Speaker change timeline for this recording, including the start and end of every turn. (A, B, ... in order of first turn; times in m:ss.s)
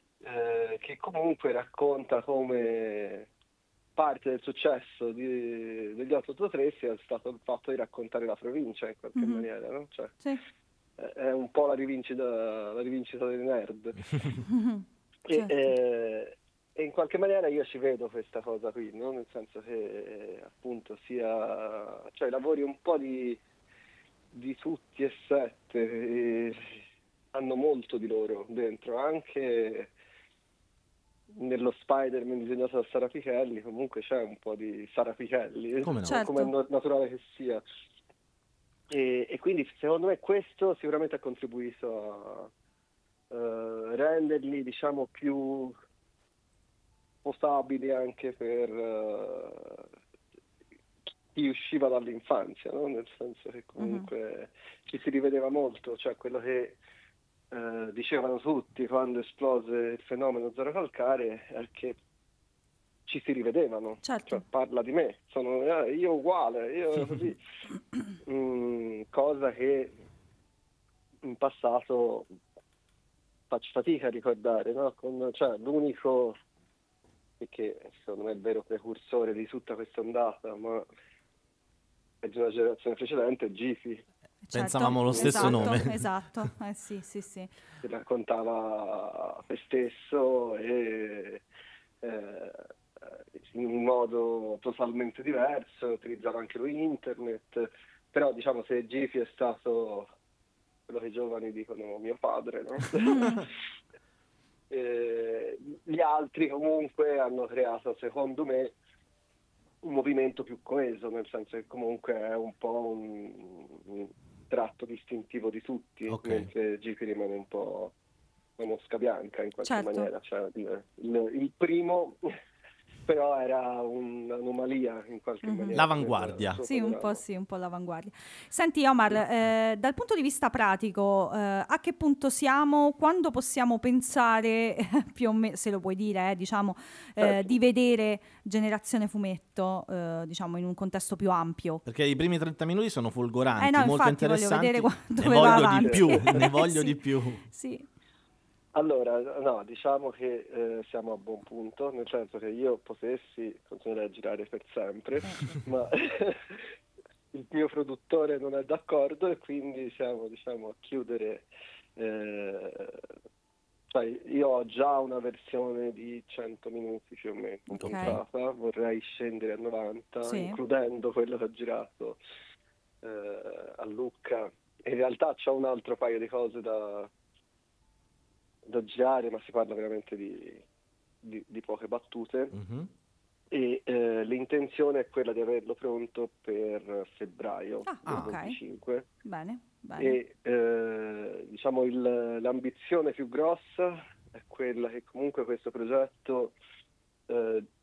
0:00.2-0:03.3 A
0:04.0-0:10.2 A
0:09.2-0:09.5 B
0:11.0-0:14.2 A
0:14.5-0:15.6 B
0:15.3-0:23.4 A
0:24.3-0:29.9 A
0:31.3-0:37.6 A
0:35.8-0:36.2 C
0:36.1-0:36.5 B
0:38.9-0:42.5 A
0:43.3-0:45.8 A
0:47.2-0:49.9 A
0:51.4-0:56.8 A
0:53.8-0:54.1 B
0:57.5-1:02.0 A
1:03.1-1:07.4 A
1:04.1-1:04.4 B
1:08.3-1:09.9 A
1:11.2-1:12.3 A
1:13.5-1:16.4 A
1:17.4-1:20.8 A
1:22.2-1:24.0 A
1:24.4-1:27.5 B
1:24.5-1:26.0 C
1:24.8-1:25.8 A
1:27.8-1:31.4 A
1:32.0-1:32.7 A
1:33.5-1:40.1 A
1:40.9-1:43.5 A
1:44.7-1:48.8 A
1:49.8-1:57.9 A
1:56.1-1:56.5 C
1:58.6-2:02.2 A
1:59.6-2:00.1 B
2:03.1-2:07.2 A
2:05.4-2:05.8 B
2:05.7-2:06.6 C
2:06.7-2:21.8 B
2:17.2-2:17.6 A
2:21.9-2:27.4 C
2:23.6-2:27.0 B
2:25.2-2:26.5 A
2:27.5-2:27.9 B
2:28.7-2:36.6 A
2:37.3-2:41.5 A
2:42.0-2:43.0 A
2:43.9-2:52.2 A
2:47.8-2:48.2 B
2:47.8-2:48.2 C
2:50.2-2:50.6 B
2:53.0-2:57.1 A
2:58.7-3:00.6 A
3:01.2-3:02.6 A
3:02.5-3:02.9 C
3:03.5-3:09.1 A
3:07.9-3:08.6 B
3:08.1-3:08.3 C
3:09.2-3:10.2 B
3:10.0-3:16.6 A
3:17.3-3:17.6 A